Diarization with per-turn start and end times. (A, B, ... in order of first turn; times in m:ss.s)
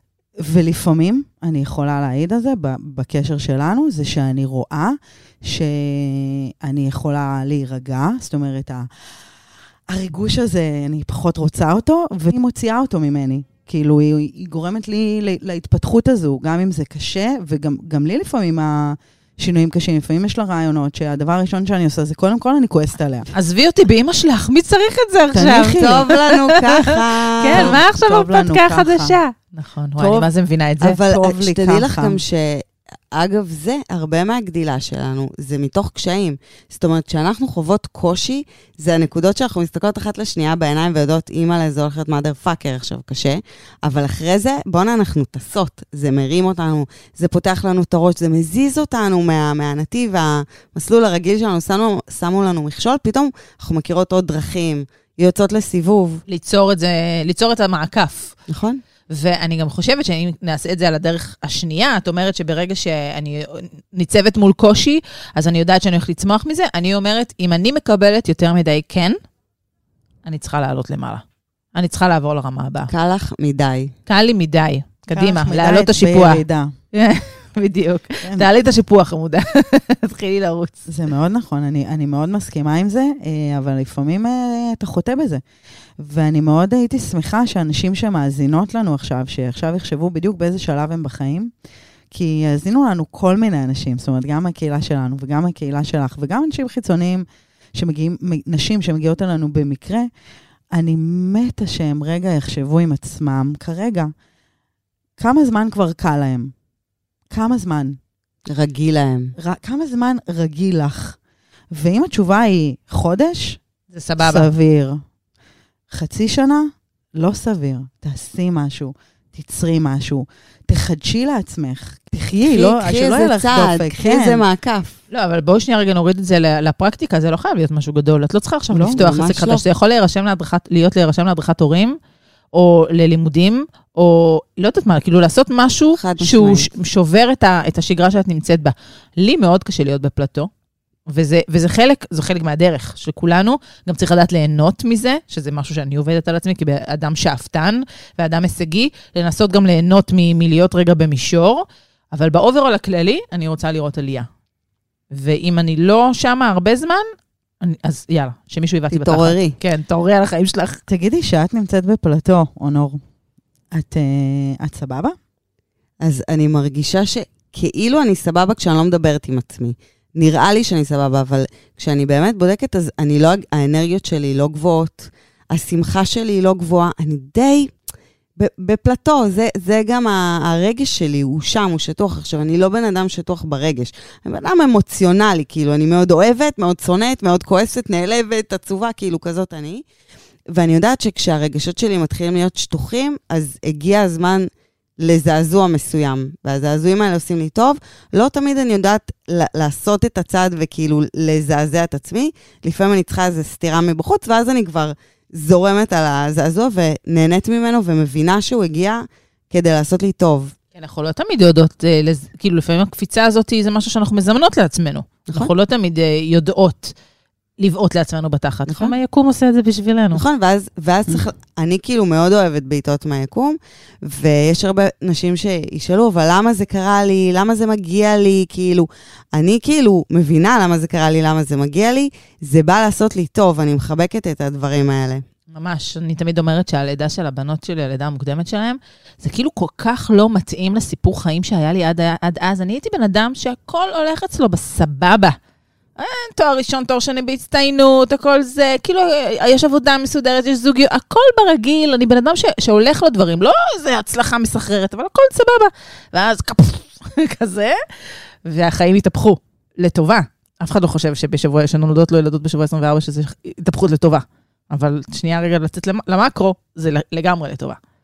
0:00.4-0:08.9 A
0:09.9-0:23.3 A
0:23.3-0:31.0 B
0:25.3-0:26.0 A
0:25.7-0:27.8 C
0:27.5-0:29.2 A
0:30.0-0:30.3 A
0:30.8-0:56.2 C
0:31.0-0:32.2 A
0:56.3-0:58.3 B
0:58.5-0:58.8 C
0:59.1-1:09.2 B
1:10.2-1:11.2 B
1:11.7-1:12.9 B
1:12.9-1:13.9 C
1:14.1-1:16.4 B
1:15.1-1:16.7 A
1:16.9-1:20.9 B
1:20.9-1:25.4 A
1:26.0-1:31.5 A
1:32.1-1:40.1 A
1:40.7-1:44.1 A
1:45.2-1:46.5 A
1:47.3-1:48.0 A
1:48.4-1:49.3 C
1:49.4-1:51.2 A
1:51.7-1:53.6 A
1:53.9-1:54.5 B
1:54.2-1:55.0 A
1:55.9-2:04.4 A
2:02.4-2:05.0 C
2:05.1-2:12.0 B
2:08.7-2:09.0 A
2:08.9-2:09.6 C
2:12.5-2:20.5 B
2:16.0-2:16.7 C
2:21.1-2:34.3 B
2:35.1-2:37.0 B
2:37.6-2:40.8 B
2:38.9-2:39.6 C
2:40.9-2:43.0 A
2:43.7-2:45.1 A
2:46.0-2:57.7 C
2:58.4-3:09.8 C
3:10.5-3:14.5 C
3:15.0-3:30.5 C
3:30.7-3:36.9 B
3:37.6-3:40.2 B
3:38.7-3:38.9 C
3:40.1-3:55.2 C
3:55.5-4:05.4 B
4:06.0-4:27.8 B